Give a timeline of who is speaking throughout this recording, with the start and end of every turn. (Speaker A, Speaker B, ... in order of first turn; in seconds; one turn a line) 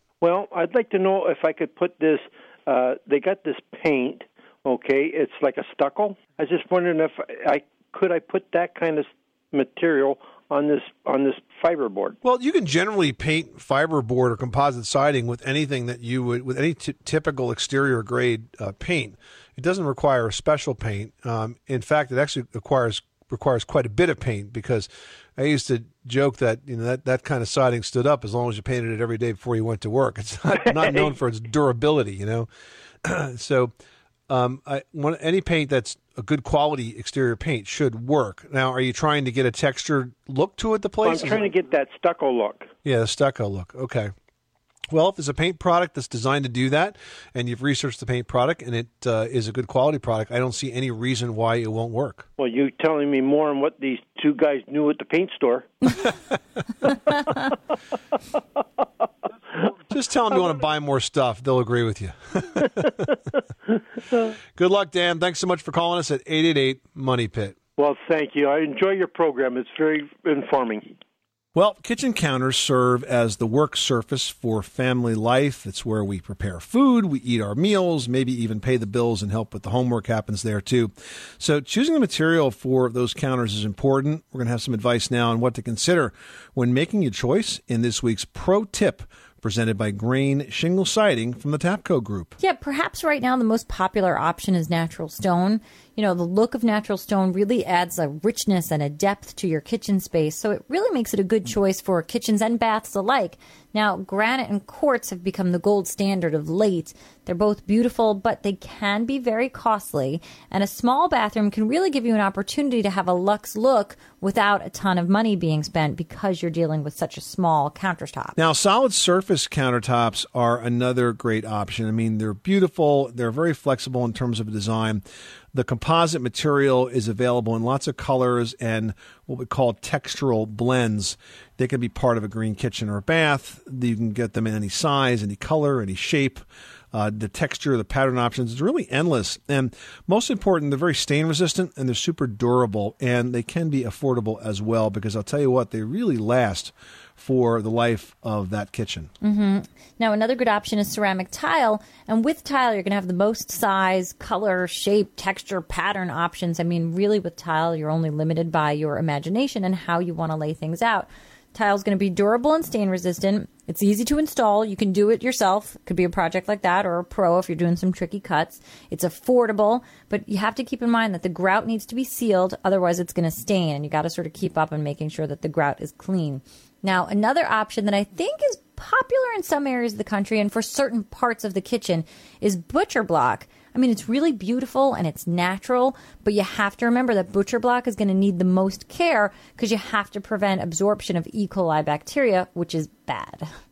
Speaker A: 0.2-12.2
Speaker B: 12.2-32.5
Speaker B: 33.0-33.7
Speaker B: 34.3-41.5
Speaker A: 41.0-42.7
Speaker B: 42.8-44.1
Speaker B: 44.9-52.3
Speaker A: 52.4-55.7
Speaker B: 59.9-62.9
Speaker B: 64.5-67.6
Speaker A: 67.8-70.9
Speaker B: 71.5-92.3
Speaker C: 92.4-118.4
Speaker B: 118.4-125.0
Speaker B: 125.5-149.1
Speaker C: 149.2-193.5